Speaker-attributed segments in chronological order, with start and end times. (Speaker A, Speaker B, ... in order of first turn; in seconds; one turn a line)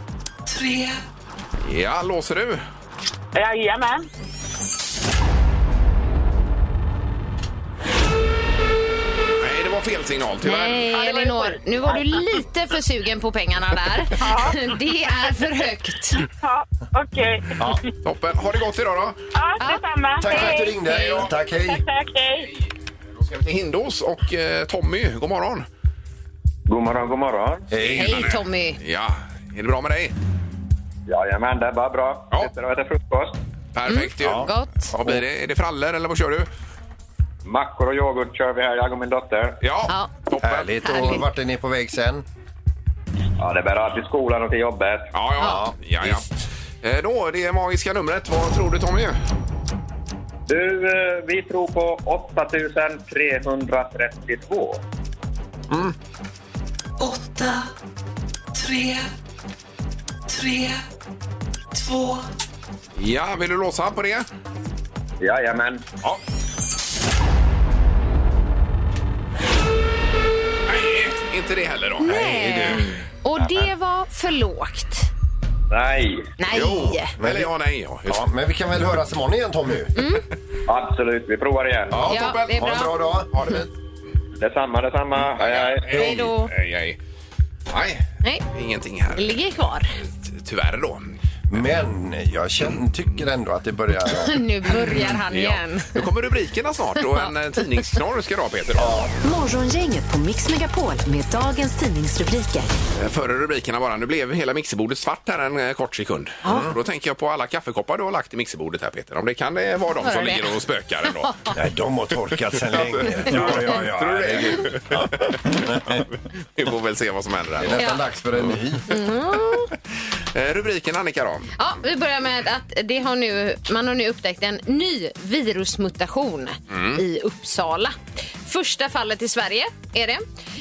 Speaker A: 0.5-0.9
Speaker B: 1.6-2.6
Speaker C: 3.3-4.1
Speaker B: 9.4-10.9
Speaker D: 10.4-16.2
Speaker C: 10.9-12.2
Speaker C: 14.2-14.6
Speaker C: 16.2-17.9
Speaker B: 18.0-19.2
Speaker C: 19.3-22.5
Speaker E: 20.2-21.8
Speaker D: 20.3-20.6
Speaker B: 23.2-25.6
Speaker F: 26.7-27.6
Speaker E: 27.7-28.3
Speaker B: 27.8-30.1
Speaker D: 27.9-28.8
Speaker F: 31.1-33.4
Speaker B: 33.7-36.5
Speaker D: 33.9-34.9
Speaker E: 34.2-35.2
Speaker F: 37.4-39.6
Speaker B: 39.6-40.7
Speaker E: 40.4-42.2
Speaker D: 40.8-41.2
Speaker F: 43.4-45.1
Speaker B: 45.1-46.3
Speaker E: 45.4-46.2
Speaker B: 46.8-49.2
Speaker F: 50.5-54.8
Speaker A: 57.0-57.6
Speaker A: 58.6-59.0
Speaker A: 60.3-60.8
Speaker A: 61.8-62.2
Speaker B: 63.0-64.3
Speaker F: 65.2-65.8
Speaker B: 70.7-72.8
Speaker D: 72.0-75.1
Speaker E: 72.0-73.0
Speaker F: 75.7-76.3
Speaker D: 76.4-77.1
Speaker B: 76.5-78.2
Speaker E: 77.2-77.5
Speaker E: 78.0-79.9
Speaker D: 80.0-80.2
Speaker F: 80.7-82.0
Speaker E: 81.9-83.3
Speaker B: 82.0-83.7
Speaker D: 82.1-82.9
Speaker F: 84.4-86.0
Speaker B: 85.4-87.0
Speaker E: 85.9-86.2
Speaker D: 86.0-86.5
Speaker B: 87.7-89.4
Speaker D: 89.1-89.9
Speaker B: 90.0-91.1
Speaker E: 91.5-94.4
Speaker D: 94.1-96.0
Speaker B: 95.3-99.0
Speaker E: 98.8-99.1
Speaker G: 99.2-102.7
Speaker B: 103.0-111.3
Speaker D: 106.4-106.7
Speaker E: 106.5-106.8
Speaker D: 110.0-110.6
Speaker D: 111.1-111.5
Speaker E: 111.5-116.0
Speaker B: 112.6-116.0
Speaker B: 116.5-118.6
Speaker E: 117.6-118.8
Speaker D: 117.8-118.0
Speaker D: 118.9-119.7
Speaker B: 120.3-121.5
Speaker D: 121.6-130.2
Speaker B: 126.7-127.0